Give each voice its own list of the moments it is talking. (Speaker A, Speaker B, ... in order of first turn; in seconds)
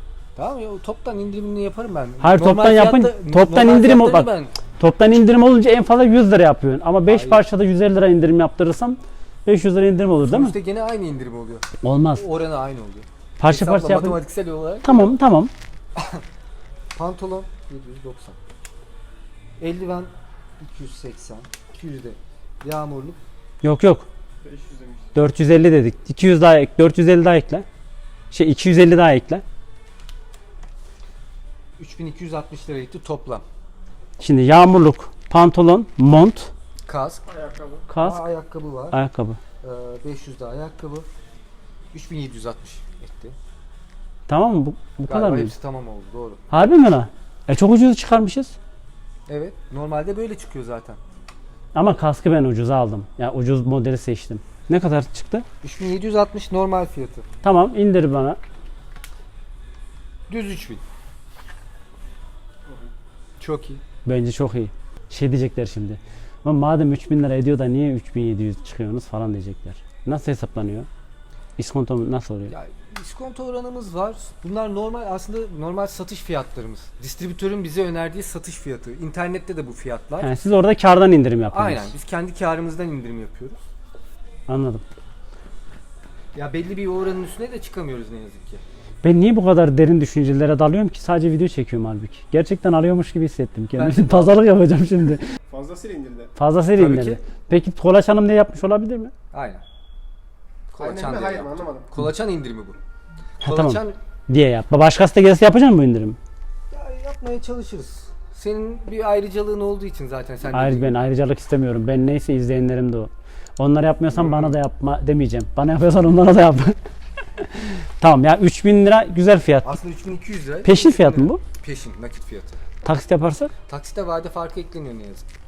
Speaker A: 0.4-4.5, 7.1-7.5, 10.2-15.2, 15.9-16.2, 16.9-18.4, 19.6-23.2, 31.8-33.5, 36.9-37.2, 38.0-39.0, 39.6-41.1, 41.9-43.4, 45.1-46.5, 49.3-51.0, 55.6-57.3, 60.3-60.8, 63.4-63.8, 72.5-80.3, 81.5-83.6, 86.3-88.6, 93.8-94.4, 96.8-97.2, 99.3-99.6, 100.7-102.8, 103.4-104.0, 106.7-111.0, 119.6-122.6, 123.7-125.2
Speaker B: 2.2-10.6, 11.8-12.2, 13.4-14.2, 14.8-15.5, 23.6-24.1, 25.1-27.6, 28.3-29.4, 34.2-36.5, 37.9-38.2, 38.9-39.4, 44.3-45.5, 46.5-48.5, 51.8-55.5, 57.4-58.4, 64.0-70.9, 71.6-72.5, 80.2-81.9, 84.5-84.8, 89.0-95.2, 96.4-99.1, 103.4-106.2, 110.5-116.8, 117.4-119.7, 120.7-121.4, 122.8-123.5
Speaker C: 24.4-25.1, 37.3-37.9, 95.5-96.3, 100.8-101.9